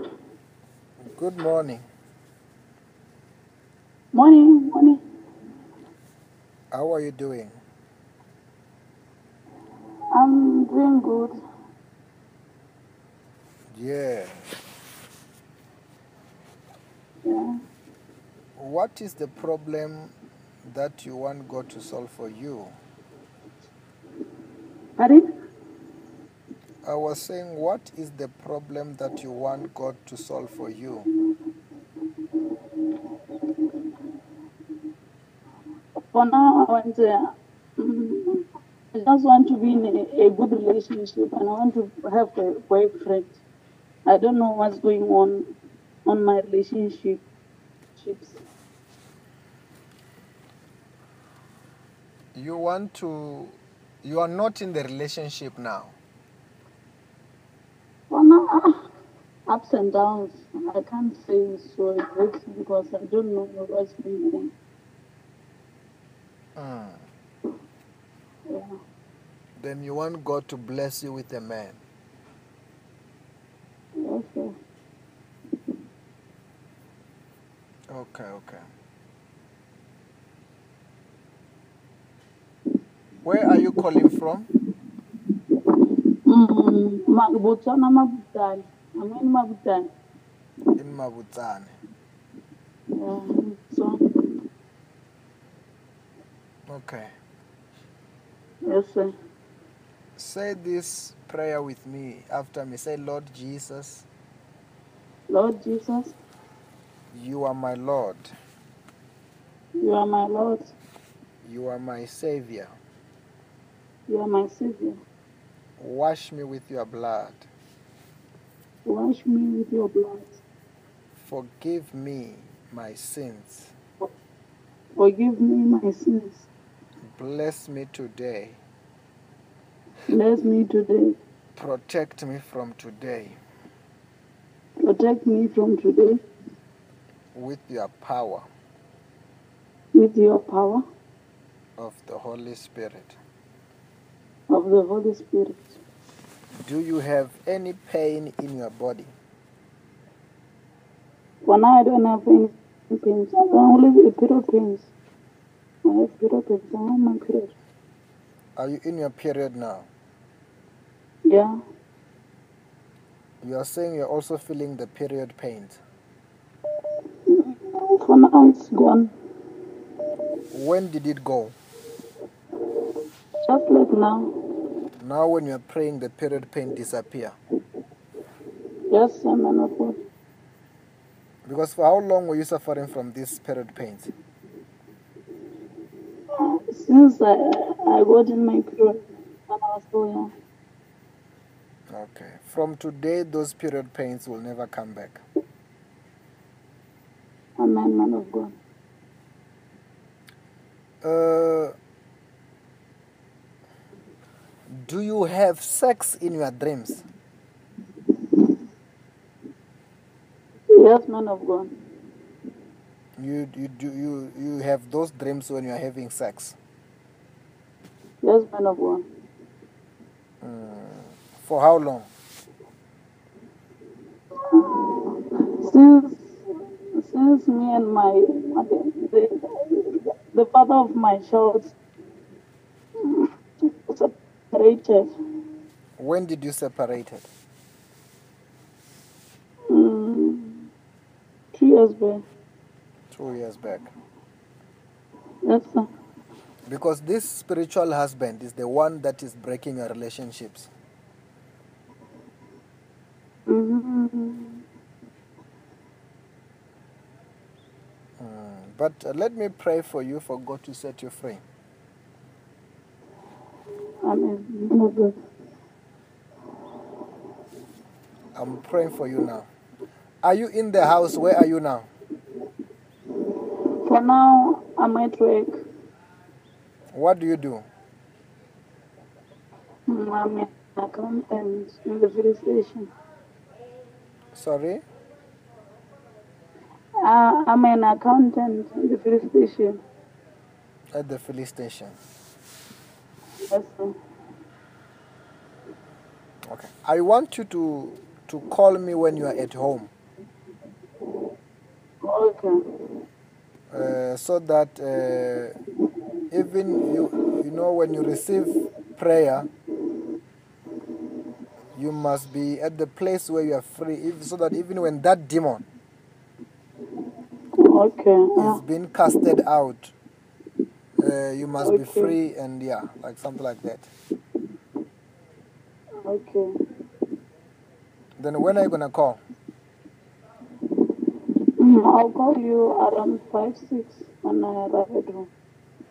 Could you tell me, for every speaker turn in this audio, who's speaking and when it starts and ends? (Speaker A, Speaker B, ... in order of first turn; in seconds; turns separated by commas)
Speaker A: 1.0-1.8, Speaker B: 4.1-5.0, Speaker A: 6.7-7.5, Speaker B: 10.1-11.3, Speaker A: 13.7-14.5, Speaker B: 17.2-17.6, Speaker A: 18.6-20.1, Speaker A: 20.6-22.7, Speaker B: 25.0-25.2, Speaker A: 26.9-31.1, Speaker B: 36.1-37.2, Speaker B: 37.8-43.4, Speaker B: 44.1-45.5, Speaker B: 46.1-47.2, Speaker B: 48.0-48.4, Speaker A: 52.3-56.0, Speaker B: 58.1-58.8, Speaker B: 59.5-64.5, Speaker A: 66.5-67.0, Speaker B: 68.5-68.8, Speaker A: 69.6-71.8, Speaker B: 74.0-74.5, Speaker A: 77.9-78.6, Speaker A: 83.2-84.5, Speaker B: 86.2-89.9, Speaker A: 90.8-91.7, Speaker B: 92.9-94.2, Speaker A: 96.7-97.1, Speaker B: 98.7-99.1, Speaker A: 100.2-104.1, Speaker B: 105.3-106.2, Speaker A: 107.1-108.3, Speaker B: 109.8-110.6, Speaker A: 111.4-112.8, Speaker B: 114.1-115.0, Speaker A: 115.8-117.5, Speaker B: 118.9-120.4, Speaker A: 121.2-123.7, Speaker B: 125.0-126.5, Speaker A: 127.0-128.6, Speaker B: 130.1-131.2, Speaker A: 131.6-133.4, Speaker B: 134.8-136.2, Speaker A: 137.3-138.5, Speaker B: 139.9-140.8, Speaker A: 141.8-143.2, Speaker B: 144.5-145.8, Speaker A: 146.6-149.1, Speaker B: 151.4-154.9, Speaker B: 155.9-157.5, Speaker A: 158.6-159.9, Speaker B: 161.3-161.6, Speaker A: 163.4-165.8, Speaker B: 167.3-169.1, Speaker A: 170.5-171.6, Speaker B: 173.5-174.3, Speaker A: 175.0-177.4, Speaker B: 178.9-180.0, Speaker A: 181.5-184.1, Speaker B: 186.4-190.3, Speaker A: 191.9-195.2, Speaker B: 197.6-198.5, Speaker A: 201.0-201.7, Speaker A: 204.7-207.1, Speaker B: 210.7-211.7, Speaker A: 213.2-216.6, Speaker B: 218.2-219.0, Speaker A: 220.4-222.1, Speaker B: 224.5-226.4, Speaker B: 226.9-231.8, Speaker B: 233.0-235.1, Speaker A: 236.0-237.3, Speaker B: 239.7-240.7, Speaker B: 241.5-242.2, Speaker A: 243.1-243.9, Speaker B: 245.5-245.9, Speaker A: 246.7-250.7, Speaker B: 253.5-254.6, Speaker A: 258.2-261.4, Speaker B: 264.0-265.1, Speaker A: 268.4-269.5, Speaker A: 270.2-271.9, Speaker B: 273.9-275.5, Speaker A: 276.9-277.6, Speaker B: 279.9-282.9, Speaker A: 284.3-284.8, Speaker B: 287.0-289.8, Speaker A: 290.9-292.0, Speaker B: 293.5-293.9, Speaker A: 296.4-299.9, Speaker B: 302.0-302.6, Speaker A: 303.7-305.5, Speaker A: 306.3-309.5, Speaker A: 311.8-315.6, Speaker B: 317.6-318.6, Speaker A: 318.4-319.9, Speaker A: 321.0-323.9, Speaker B: 321.6-322.1, Speaker B: 326.0-326.5, Speaker A: 328.2-329.2, Speaker B: 331.6-335.3